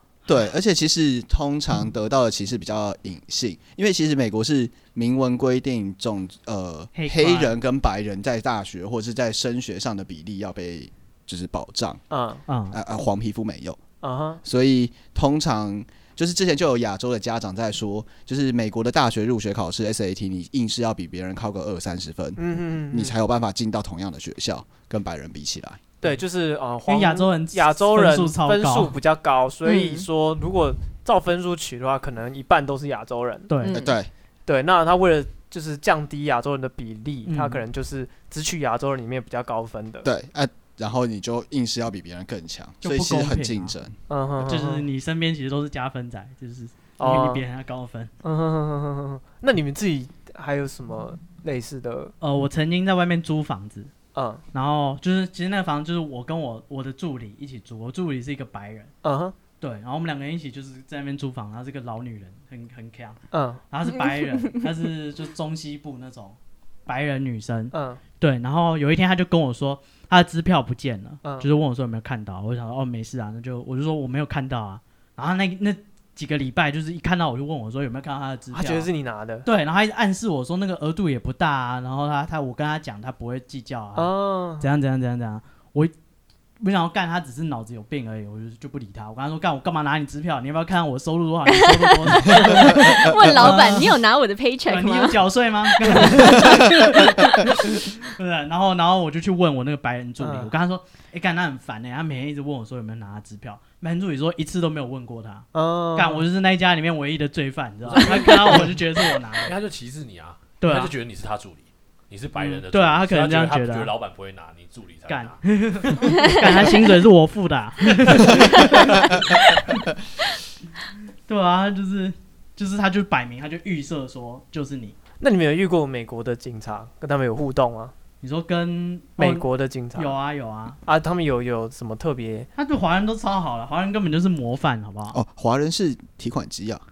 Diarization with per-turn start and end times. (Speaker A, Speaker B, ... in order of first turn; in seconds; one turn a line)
Speaker A: 0.2-12.0
Speaker B: 6.9-7.5
Speaker C: 12.1-12.4
Speaker B: 12.5-12.8
Speaker A: 12.7-13.8
Speaker C: 14.0-14.4
Speaker A: 14.4-25.8
Speaker C: 22.4-23.1
Speaker C: 26.0-33.5
Speaker B: 26.9-28.9
Speaker D: 29.6-30.0
Speaker B: 33.5-33.8
Speaker D: 33.6-34.0
Speaker A: 33.7-34.1
Speaker C: 34.5-40.1
Speaker B: 37.2-37.6
Speaker A: 40.0-43.9
Speaker B: 42.8-43.7
Speaker C: 44.1-44.8
Speaker B: 44.4-48.1
Speaker C: 47.0-47.4
Speaker C: 48.2-52.1
Speaker B: 52.2-53.9
Speaker C: 54.1-54.4
Speaker B: 54.5-58.9
Speaker C: 59.0-59.4
Speaker B: 59.6-63.2
Speaker C: 63.3-63.6
Speaker B: 63.7-78.9
Speaker D: 64.0-64.6
Speaker C: 67.7-68.0
Speaker C: 78.5-79.5
Speaker B: 79.4-85.9
Speaker C: 84.0-84.7
Speaker B: 86.6-94.0
Speaker D: 91.5-95.2
Speaker B: 94.7-109.5
Speaker D: 95.8-97.1
Speaker C: 100.2-100.5
Speaker C: 105.5-106.2
Speaker E: 107.9-108.7
Speaker E: 109.4-116.0
Speaker B: 110.6-110.9
Speaker B: 112.3-113.9
Speaker B: 115.1-119.8
Speaker E: 118.0-119.1
Speaker B: 121.3-125.0
Speaker C: 125.2-127.9
Speaker B: 128.2-130.8
Speaker C: 129.2-130.2
Speaker C: 130.8-132.5
Speaker B: 132.6-135.2
Speaker A: 135.1-136.8